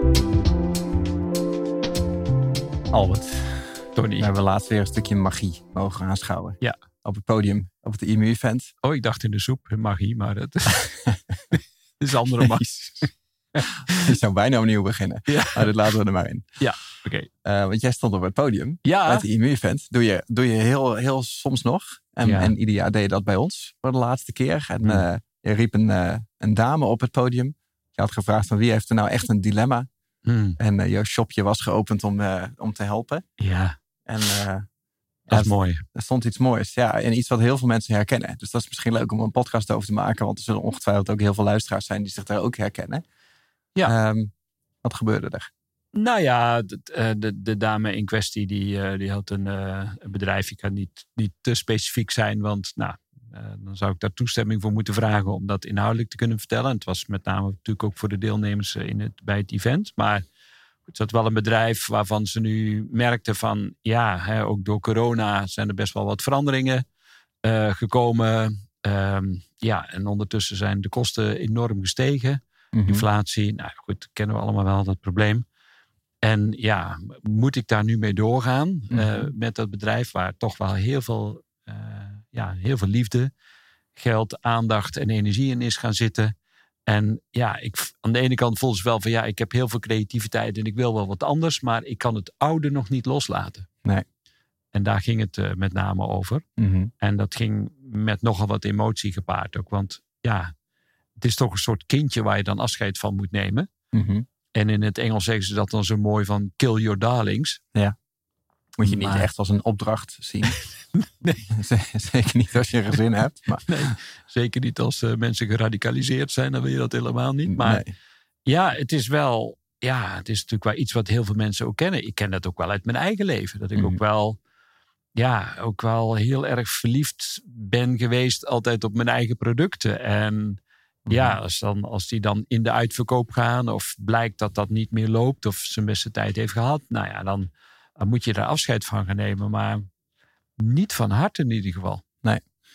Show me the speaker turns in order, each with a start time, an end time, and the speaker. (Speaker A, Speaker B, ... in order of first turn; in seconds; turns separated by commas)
Speaker A: 2.9-8.7, Speaker B: 4.0-4.3, Speaker B: 8.8-10.9, Speaker B: 11.5-12.6, Speaker A: 12.4-13.1, Speaker B: 13.6-14.1, Speaker A: 13.9-16.5, Speaker B: 15.3-15.7, Speaker B: 16.6-17.3, Speaker A: 17.4-29.9, Speaker B: 18.9-19.3, Speaker B: 22.2-22.5, Speaker B: 30.2-30.6, Speaker A: 30.6-33.2, Speaker B: 33.4-33.8, Speaker A: 34.1-34.7, Speaker B: 35.3-35.9, Speaker A: 35.3-43.0, Speaker A: 43.9-44.3, Speaker A: 44.8-45.5, Speaker B: 45.9-60.2, Speaker B: 60.9-66.9, Speaker B: 67.4-75.5, Speaker A: 72.7-73.1, Speaker B: 76.2-83.3, Speaker A: 78.9-79.3, Speaker B: 84.0-86.3, Speaker B: 86.9-93.7, Speaker B: 94.7-96.5, Speaker A: 96.6-96.9, Speaker B: 97.0-100.5, Speaker B: 101.2-103.7, Speaker A: 103.9-104.2, Speaker B: 104.5-107.6, Speaker A: 108.8-110.6, Speaker B: 108.8-109.3, Speaker B: 110.5-111.5, Speaker A: 111.5-113.9, Speaker B: 113.7-117.8, Speaker A: 117.5-117.9, Speaker B: 118.5-124.4, Speaker B: 125.2-139.9, Speaker A: 131.1-131.4, Speaker B: 140.6-142.0